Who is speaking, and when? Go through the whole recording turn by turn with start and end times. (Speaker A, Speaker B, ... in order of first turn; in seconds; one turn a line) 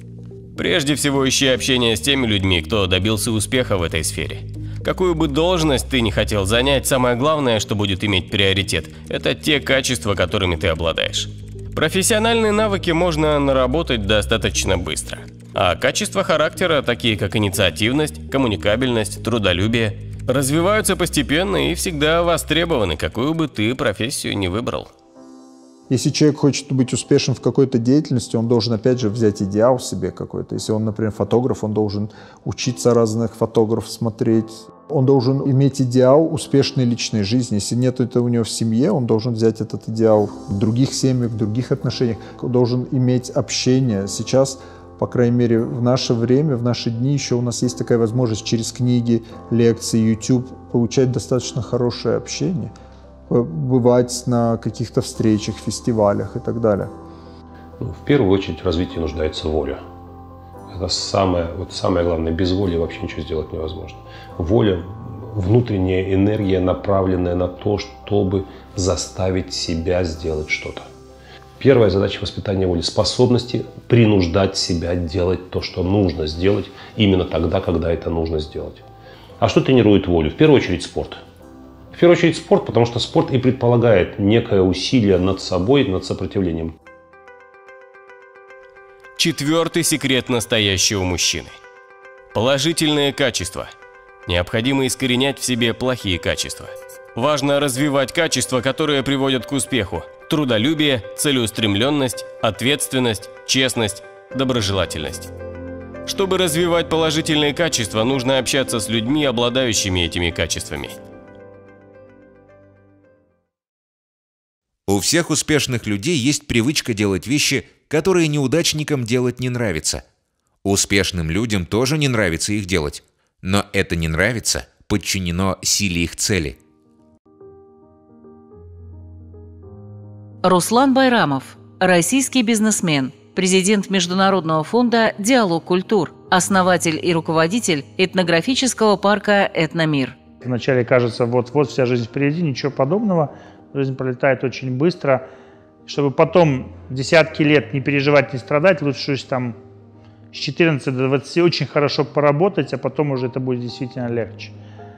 Speaker A: 0.6-24.9
Speaker B: 25.9-52.7
Speaker B: 53.3-56.9
Speaker C: 57.8-59.8
Speaker C: 60.7-70.9
Speaker C: 71.6-78.8
Speaker C: 79.4-81.2
Speaker C: 81.9-86.7
Speaker A: 89.2-91.5
Speaker A: 92.3-93.7
Speaker A: 94.3-105.3
Speaker A: 106.1-111.0
Speaker D: 114.9-120.0
Speaker D: 120.6-126.6
Speaker E: 130.4-140.2
Speaker F: 140.4-145.3
Speaker F: 145.9-149.6
Speaker F: 150.3-154.6